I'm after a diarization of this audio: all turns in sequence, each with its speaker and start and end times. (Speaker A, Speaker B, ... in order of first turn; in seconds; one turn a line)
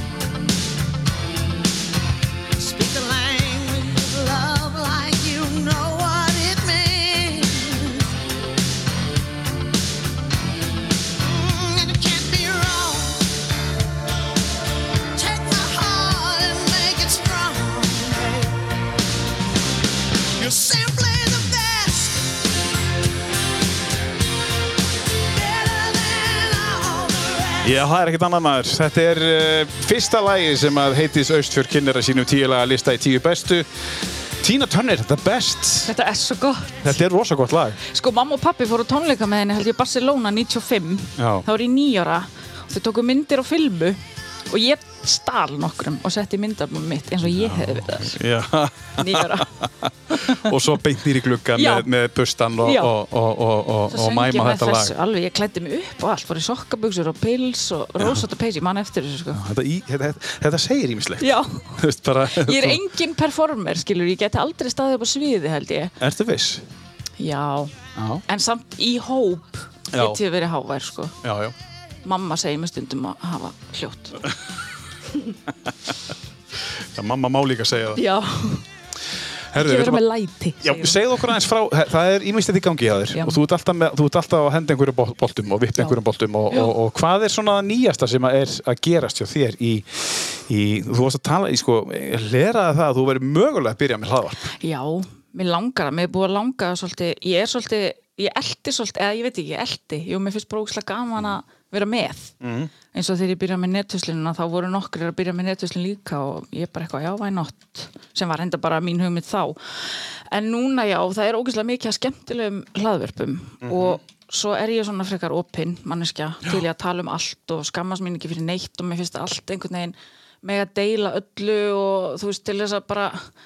Speaker A: 2.5-8.1
Speaker A: 11.2-13.3
Speaker A: 15.1-18.6
Speaker A: 20.4-22.3
Speaker A: 25.3-27.8
Speaker B: 27.6-35.9
Speaker C: 35.9-37.0
Speaker B: 36.8-37.8
Speaker C: 37.8-48.2
Speaker B: 41.2-41.5
Speaker B: 47.2-54.9
Speaker C: 49.0-49.5
Speaker C: 50.1-50.6
Speaker C: 51.5-51.9
Speaker C: 52.6-52.9
Speaker C: 53.9-59.4
Speaker B: 58.0-58.2
Speaker B: 59.3-62.8
Speaker C: 61.2-65.9
Speaker B: 66.0-66.7
Speaker C: 67.2-71.2
Speaker B: 68.0-68.2
Speaker B: 69.9-70.2
Speaker B: 71.2-71.5
Speaker C: 72.0-74.3
Speaker B: 76.6-78.0
Speaker C: 77.9-78.7
Speaker B: 79.5-80.0
Speaker C: 79.5-81.3
Speaker B: 80.6-94.5
Speaker C: 83.1-83.4
Speaker C: 85.8-86.7
Speaker C: 94.6-102.3
Speaker B: 102.4-102.7
Speaker C: 102.9-123.3
Speaker B: 113.6-114.0